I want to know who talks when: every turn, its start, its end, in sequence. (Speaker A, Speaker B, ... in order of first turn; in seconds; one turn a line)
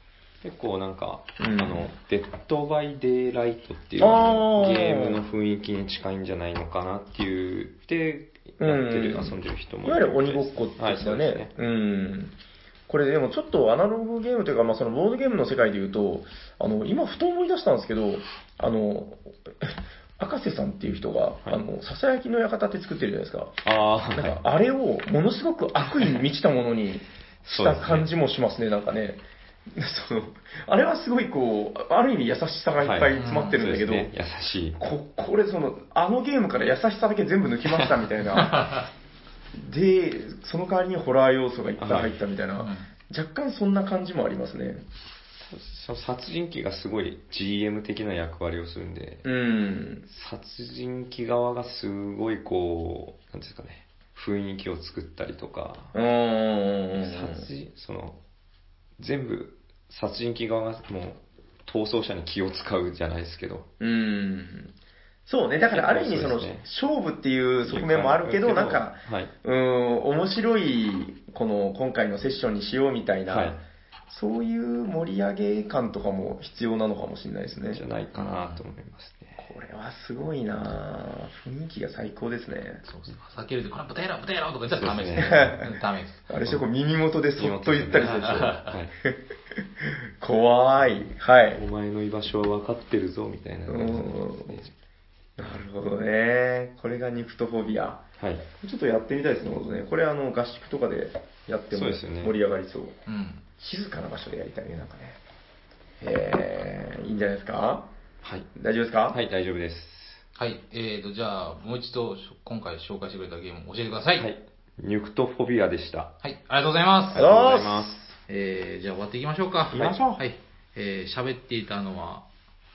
Speaker A: 0.4-11.5
Speaker B: 1.4-1.9
Speaker B: 4.0-5.2
Speaker B: 8.6-12.3
Speaker B: 12.9-34.1
Speaker A: 23.6-24.4
Speaker A: 27.5-28.1
Speaker A: 32.8-34.8
Speaker C: 33.1-33.6
Speaker B: 34.8-38.6
Speaker C: 38.4-38.9
Speaker B: 39.5-44.8
Speaker A: 41.8-42.1
Speaker C: 42.6-42.9
Speaker A: 45.4-49.2
Speaker B: 49.2-50.0
Speaker A: 50.1-55.9
Speaker B: 55.9-57.5
Speaker A: 57.0-58.2
Speaker A: 59.0-63.7
Speaker B: 63.8-64.7
Speaker B: 65.3-73.6
Speaker A: 65.7-66.7
Speaker A: 67.6-69.3
Speaker A: 73.3-73.6
Speaker B: 74.1-77.8
Speaker A: 77.6-79.5
Speaker C: 78.2-78.6
Speaker B: 79.4-82.8
Speaker C: 82.8-86.2
Speaker A: 84.7-85.6
Speaker B: 85.2-85.7
Speaker B: 86.3-89.2
Speaker A: 87.4-88.9
Speaker C: 88.0-88.7
Speaker B: 89.8-91.6
Speaker A: 91.5-94.7
Speaker B: 93.7-94.6
Speaker B: 95.4-98.0
Speaker A: 98.2-98.5
Speaker B: 98.5-103.0
Speaker A: 101.7-102.3
Speaker C: 103.1-103.4
Speaker B: 103.6-105.2
Speaker B: 106.0-107.9
Speaker A: 108.2-108.5
Speaker B: 108.5-109.2
Speaker A: 109.1-110.2
Speaker C: 110.3-114.3
Speaker A: 114.2-116.1
Speaker C: 116.2-117.2
Speaker A: 117.1-118.1
Speaker B: 117.1-117.9
Speaker C: 118.3-122.2
Speaker B: 119.7-120.2